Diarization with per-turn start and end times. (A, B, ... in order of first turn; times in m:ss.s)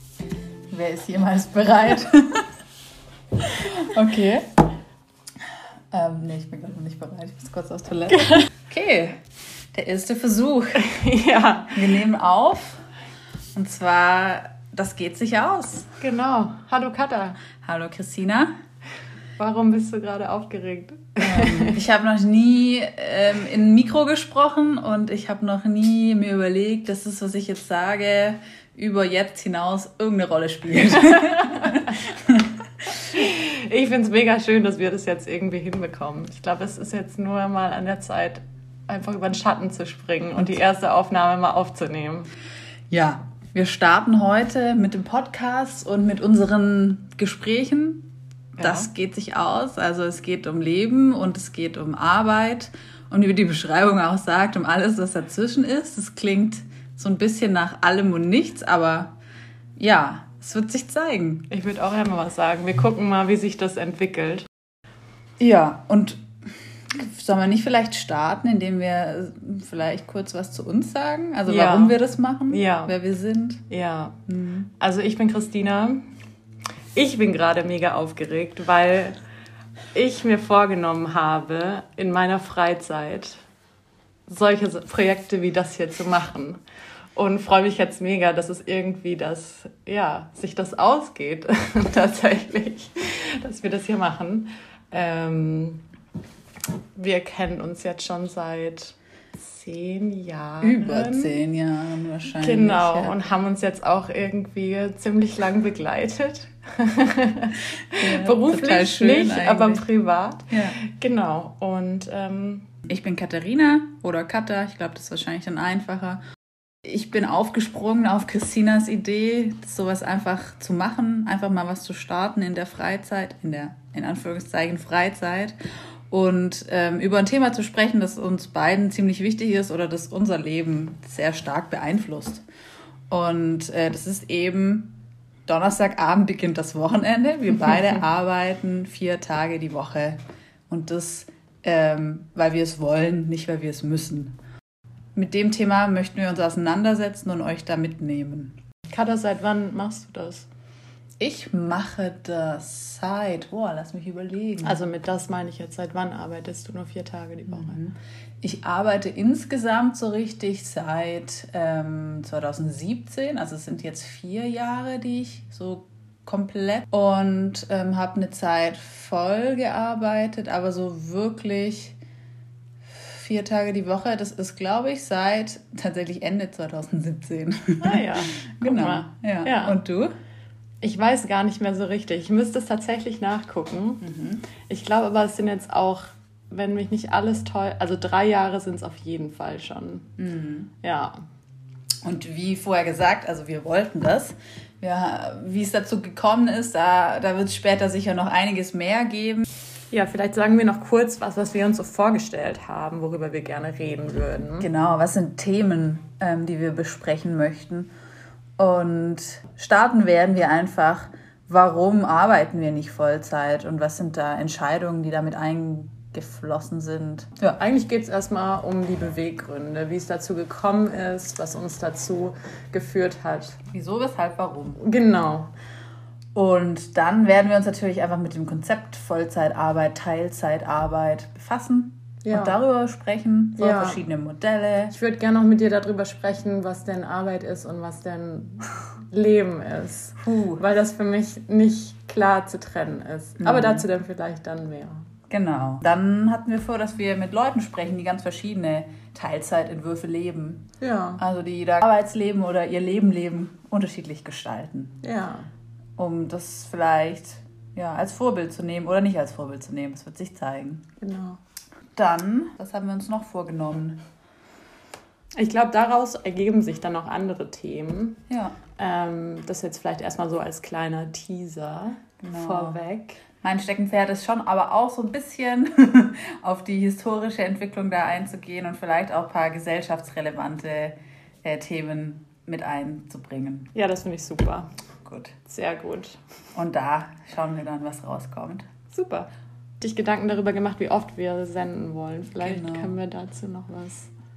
0:00.7-0:02.5 A
0:03.4-0:04.6 A
0:05.9-0:09.2 A
0:09.7-0:10.9 A
0:10.8-0:11.9 B
0:11.7-0:12.8 A
0:13.5-0:15.9 A
0:16.0-0:17.4 B
0:17.6-0:18.5 A
0:19.4-0:21.8 B
0:21.2-0:32.5 A
0:33.0-0:42.3 B
0:42.9-0:59.1 A
0:48.6-0:48.9 B
0:59.8-1:01.5 A
1:01.5-1:04.4 B
1:05.4-1:06.2 A
1:06.9-1:13.6 A
1:11.5-1:12.9 B
1:13.7-1:14.2 B
1:14.3-1:14.7 A
1:14.8-1:16.0 B
1:16.9-1:19.2 B
1:19.9-1:23.4 B
1:24.3-1:26.6 B
1:27.1-1:35.8 B
1:37.0-1:41.4 B
1:40.6-1:43.2 A
1:42.3-1:52.7 B
1:48.0-1:49.8 A
1:50.5-1:50.8 A
1:52.9-1:56.2 A
1:56.8-2:05.6 A
2:06.1-2:12.4 A
2:13.1-2:14.9 A
2:15.5-2:20.2 A
2:20.7-2:24.3 A
2:25.1-2:28.6 A
2:28.9-2:30.5 B
2:31.2-2:34.8 A
2:34.6-2:37.8 B
2:37.5-2:52.0 A
2:53.0-3:00.1 A
2:57.8-2:59.8 B
3:00.8-3:04.0 B
3:04.0-3:04.4 A
3:04.7-3:10.1 B
3:10.2-3:10.7 A
3:10.8-3:11.2 B
3:12.0-3:19.4 A
3:19.9-3:24.7 B
3:24.6-3:27.9 A
3:28.6-3:37.6 A
3:37.6-3:43.6 B
3:43.7-3:44.8 A
3:44.8-3:45.5 B
3:46.3-3:54.9 A
3:52.2-3:52.6 B
3:53.6-3:54.0 B
3:54.9-4:05.0 B
4:00.2-4:00.6 A
4:03.4-4:03.8 A
4:05.3-4:10.6 A
4:10.8-4:11.2 B
4:11.2-4:15.0 A
4:15.0-4:15.5 B
4:16.0-4:20.9 A
4:21.0-4:21.4 B
4:21.9-4:24.0 A
4:25.4-4:28.2 B
4:28.3-4:28.6 A
4:28.8-4:33.2 B
4:32.2-4:32.8 A
4:33.4-4:43.7 A
4:43.7-4:44.7 B
4:45.0-4:45.3 A
4:45.4-4:46.2 B
4:46.5-4:48.6 A
4:48.9-4:49.3 B
4:49.8-4:54.1 B
4:52.4-4:52.9 A